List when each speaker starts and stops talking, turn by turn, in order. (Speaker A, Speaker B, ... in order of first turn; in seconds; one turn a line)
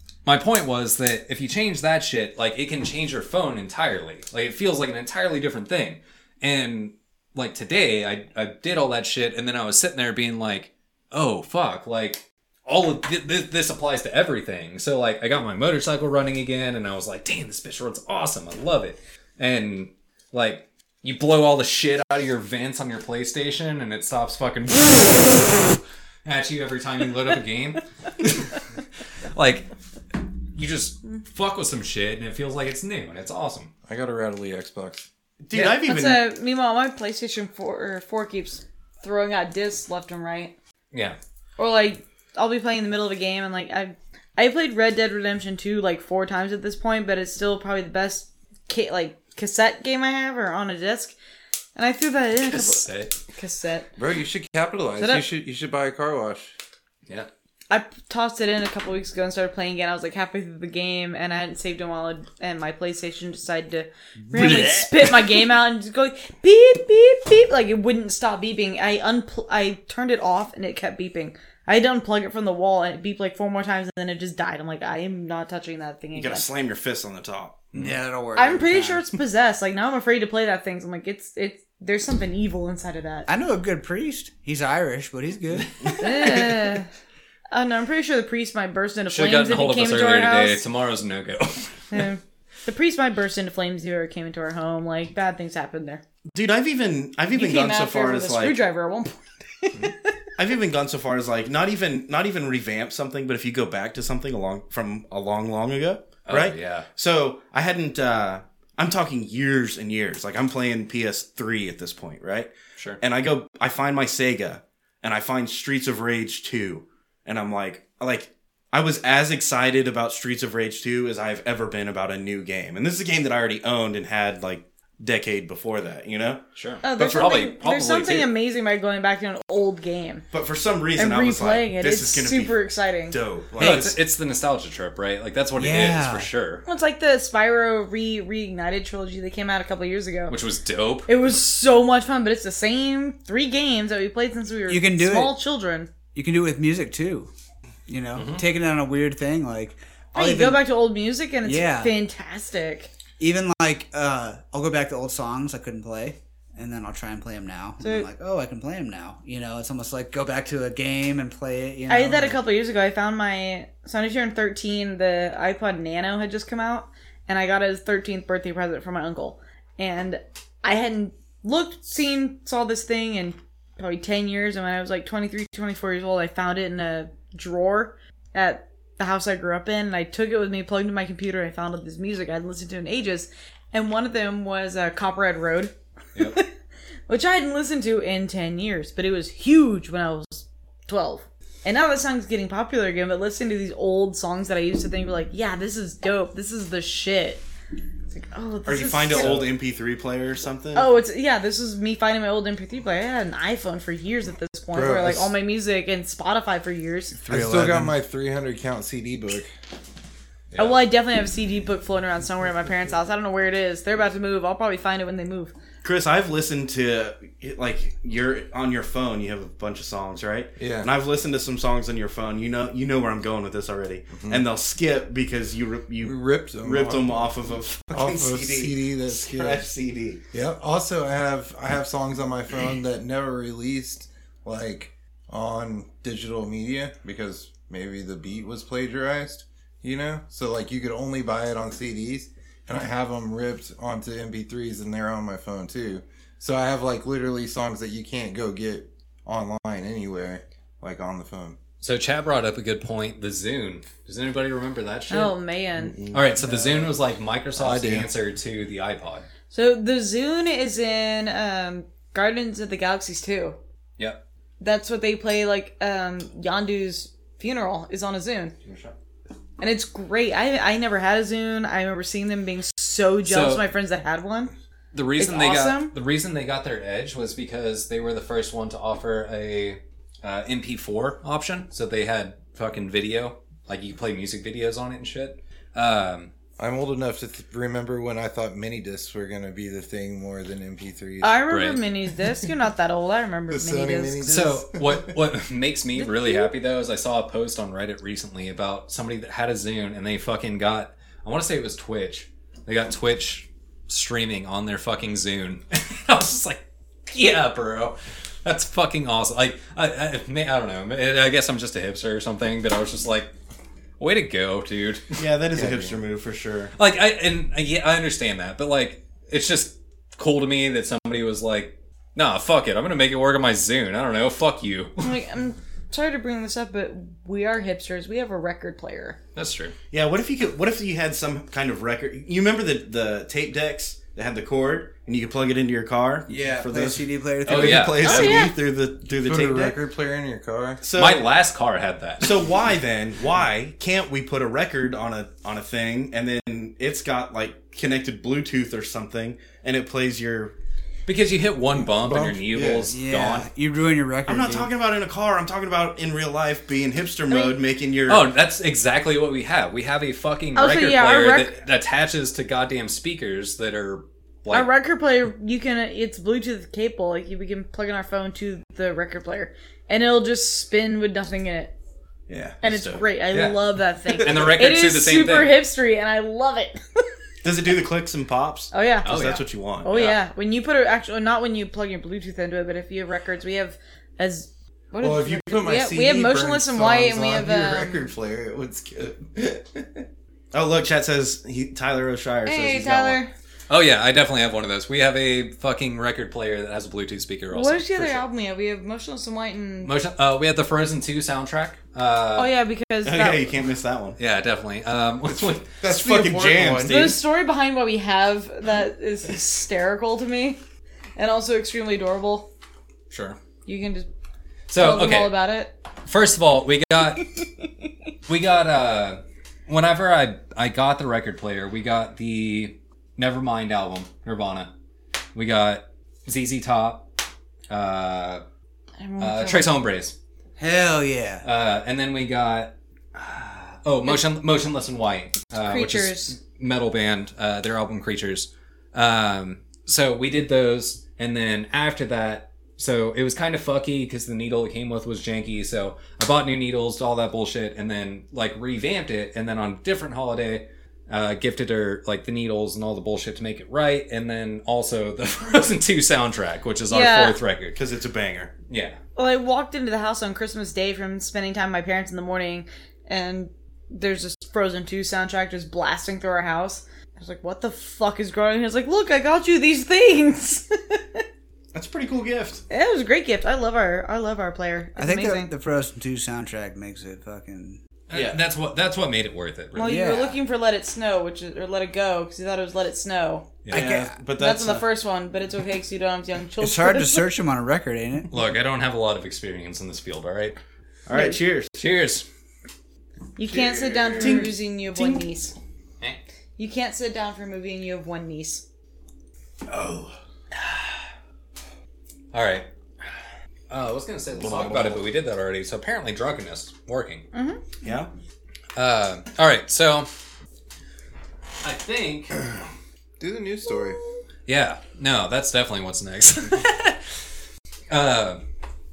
Speaker A: 0.2-28.6
Speaker A: 29.3-29.7
Speaker A: 30.5-33.7
Speaker B: 33.9-35.1
Speaker C: 35.4-36.2
Speaker D: 35.8-40.5
Speaker A: 40.9-41.2
Speaker D: 41.6-51.1
Speaker D: 51.8-53.9
Speaker A: 52.5-53.1
Speaker B: 54.0-56.5
Speaker D: 55.0-55.2
Speaker D: 57.7-76.5
Speaker C: 76.1-77.7
Speaker E: 77.7-79.0
Speaker D: 78.3-83.3
Speaker E: 83.3-85.9
Speaker D: 86.0-86.9
Speaker D: 87.5-90.6
Speaker A: 89.1-92.1
Speaker D: 91.9-96.0
Speaker C: 96.3-98.6
Speaker D: 97.3-99.9
Speaker C: 100.4-126.4
Speaker A: 106.2-106.9
Speaker A: 126.5-128.3
Speaker D: 126.8-130.2
Speaker C: 130.3-132.6
Speaker D: 130.9-133.2
Speaker C: 133.1-133.9
Speaker A: 133.6-136.6
Speaker E: 133.6-133.9
Speaker E: 135.6-136.3
Speaker D: 136.7-140.3
Speaker A: 140.3-141.1
Speaker D: 141.1-145.9
Speaker E: 144.7-145.4
Speaker E: 146.1-147.3
Speaker E: 147.9-150.6
Speaker A: 148.1-148.4
Speaker D: 150.1-152.9
Speaker E: 151.4-151.9
Speaker E: 153.2-162.4
Speaker D: 157.8-158.1
Speaker D: 161.9-186.5
Speaker D: 187.1-197.4
Speaker D: 198.1-199.5
Speaker C: 198.7-200.9
Speaker B: 199.1-199.5
Speaker D: 200.7-207.2
Speaker B: 204.7-205.3
Speaker E: 207.2-207.9
Speaker B: 207.3-209.5
Speaker A: 210.5-210.8
Speaker D: 210.6-215.5
Speaker C: 215.8-230.2
Speaker B: 220.6-220.9
Speaker B: 224.2-224.4
Speaker B: 226.0-227.3
Speaker B: 227.9-229.7
Speaker B: 230.3-251.6
Speaker A: 251.8-255.3
Speaker D: 255.1-255.9
Speaker A: 256.1-259.3
Speaker B: 256.4-256.9
Speaker B: 257.6-258.1
Speaker D: 259.5-263.6
Speaker D: 264.6-268.5
Speaker A: 268.6-268.9
Speaker D: 269.6-274.5
Speaker A: 273.2-273.6
Speaker A: 274.9-286.3
Speaker D: 275.2-275.9
Speaker B: 286.6-291.4
Speaker D: 291.2-294.2
Speaker A: 291.5-291.8
Speaker B: 293.5-295.1
Speaker A: 294.2-313.3
Speaker D: 295.9-296.5
Speaker A: 314.0-315.2
Speaker C: 315.2-316.7
Speaker B: 315.5-316.0
Speaker A: 316.8-325.1
Speaker D: 325.0-329.2
Speaker A: 329.3-329.7
Speaker C: 329.9-339.8
Speaker E: 336.3-338.1
Speaker A: 337.4-338.5
Speaker D: 338.0-338.5
Speaker B: 339.2-340.8
Speaker C: 340.8-341.3
Speaker A: 340.9-342.5
Speaker C: 342.2-350.5
Speaker A: 351.1-353.4
Speaker B: 351.8-352.9
Speaker E: 352.9-354.7
Speaker C: 353.1-353.4
Speaker C: 354.2-358.3
Speaker D: 357.3-357.5
Speaker A: 358.1-364.7
Speaker D: 360.5-361.6
Speaker D: 364.5-371.7
Speaker C: 372.3-373.0
Speaker D: 372.6-377.1
Speaker A: 373.3-375.6
Speaker C: 374.2-374.5
Speaker C: 377.4-380.2
Speaker D: 378.7-379.1
Speaker A: 379.1-379.4
Speaker D: 379.8-388.1
Speaker B: 385.0-390.1
Speaker C: 390.5-393.2
Speaker D: 392.4-393.3
Speaker A: 393.7-398.2
Speaker D: 397.5-399.9
Speaker A: 399.8-402.5
Speaker D: 402.3-403.5
Speaker C: 403.0-404.2
Speaker A: 404.2-405.8
Speaker B: 405.3-407.1
Speaker C: 405.8-407.2
Speaker D: 406.8-410.6
Speaker D: 411.2-412.5
Speaker A: 413.1-413.4
Speaker D: 413.6-414.1
Speaker A: 414.7-415.4
Speaker D: 414.7-415.7
Speaker A: 416.1-417.3
Speaker A: 418.3-424.7
Speaker A: 425.3-427.1
Speaker A: 427.7-428.4
Speaker D: 429.0-429.7
Speaker A: 429.2-430.1
Speaker E: 430.6-431.4
Speaker A: 431.4-457.8
Speaker D: 435.6-436.4
Speaker D: 456.9-457.4
Speaker C: 457.8-458.5
Speaker A: 458.7-459.0
Speaker D: 459.1-471.2
Speaker C: 471.7-472.6
Speaker D: 472.7-475.5
Speaker E: 475.0-477.8
Speaker A: 478.1-479.9
Speaker C: 478.1-478.4
Speaker D: 479.7-483.5
Speaker E: 479.8-480.4
Speaker E: 483.7-484.1
Speaker C: 483.7-484.9
Speaker D: 484.4-487.3
Speaker E: 486.6-488.3
Speaker A: 488.3-490.6
Speaker C: 491.1-491.8
Speaker D: 491.1-491.4
Speaker A: 491.8-492.2
Speaker D: 493.4-495.5
Speaker B: 493.5-494.4
Speaker C: 494.2-495.2
Speaker D: 496.6-498.6
Speaker C: 499.7-500.1
Speaker A: 500.5-500.9
Speaker A: 502.3-503.1
Speaker A: 503.7-507.2
Speaker C: 504.4-505.0
Speaker D: 507.3-507.6
Speaker C: 507.8-508.1
Speaker A: 508.8-510.1
Speaker A: 511.6-512.4
Speaker B: 513.2-514.0
Speaker A: 514.5-517.2
Speaker A: 517.9-518.4